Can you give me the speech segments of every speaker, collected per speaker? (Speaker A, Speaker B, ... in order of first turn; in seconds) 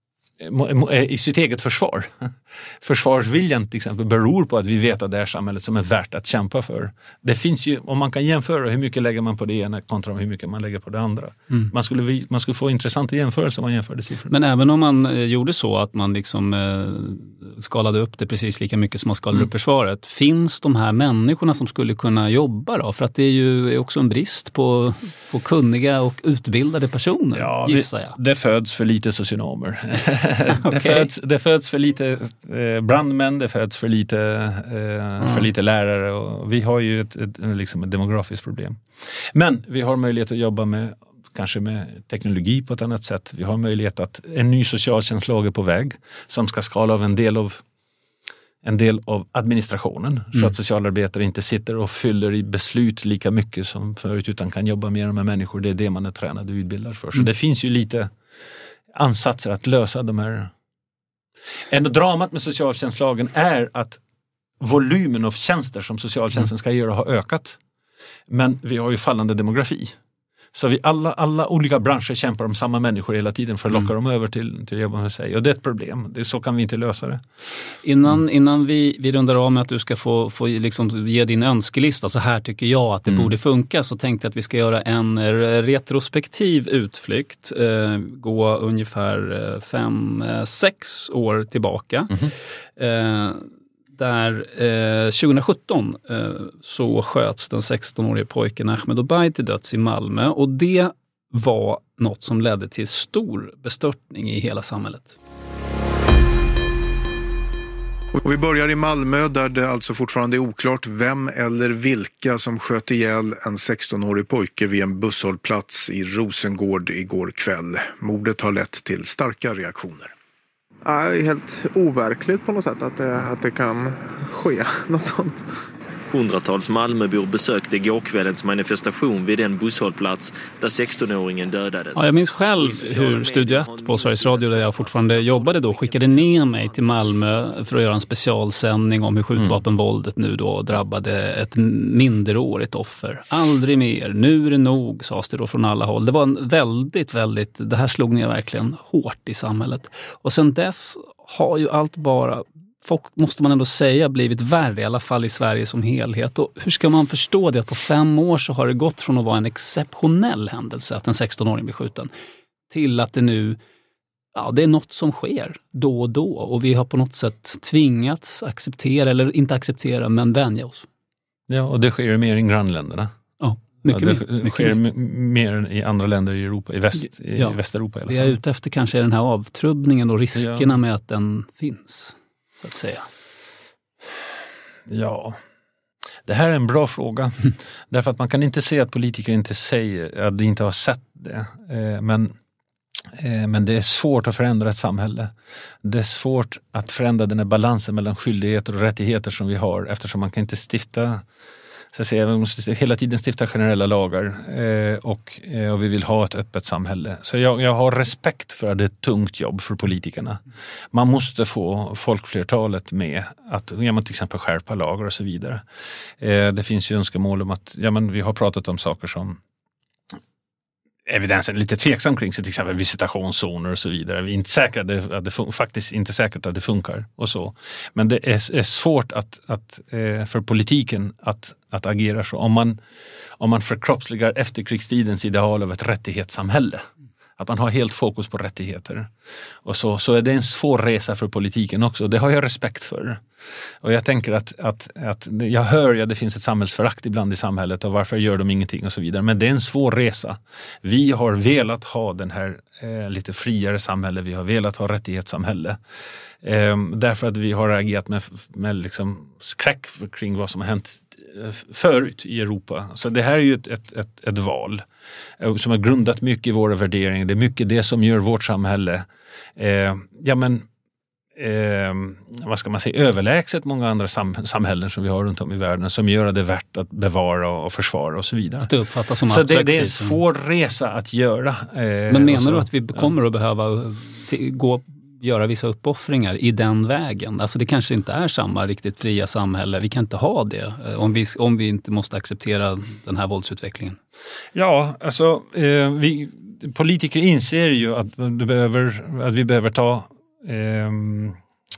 Speaker A: 0.4-14.3, 27.3-47.6, 48.6-58.1, 58.9-60.5, 61.7-64.0, 64.6-67.6, 68.3-70.0, 70.5-77.2, 171.5-173.1, 173.9-178.4, 180.4-180.7, 184.9-185.4, 186.3-192.3, 193.0-201.2, 201.9-215.6, 216.2-219.4, 221.1-232.8, 233.4-236.8, 237.4-239.1, 239.6-243.2, 243.8-255.8, 256.4-264.9, 265.4-270.7, 271.4-278.7, 279.3-283.1, 294.5-301.4
Speaker B: 14.3-28.2, 30.5-31.1, 35.2-35.5, 77.8-92.2, 92.8-105.2, 131.9-162.1, 162.7-163.6, 164.3-170.9, 173.4-174.8, 177.0-183.1, 278.6-280.2, 282.1-294.0
Speaker C: 108.2-120.1
Speaker D: 120.8-125.4
Speaker E: 126.1-136.7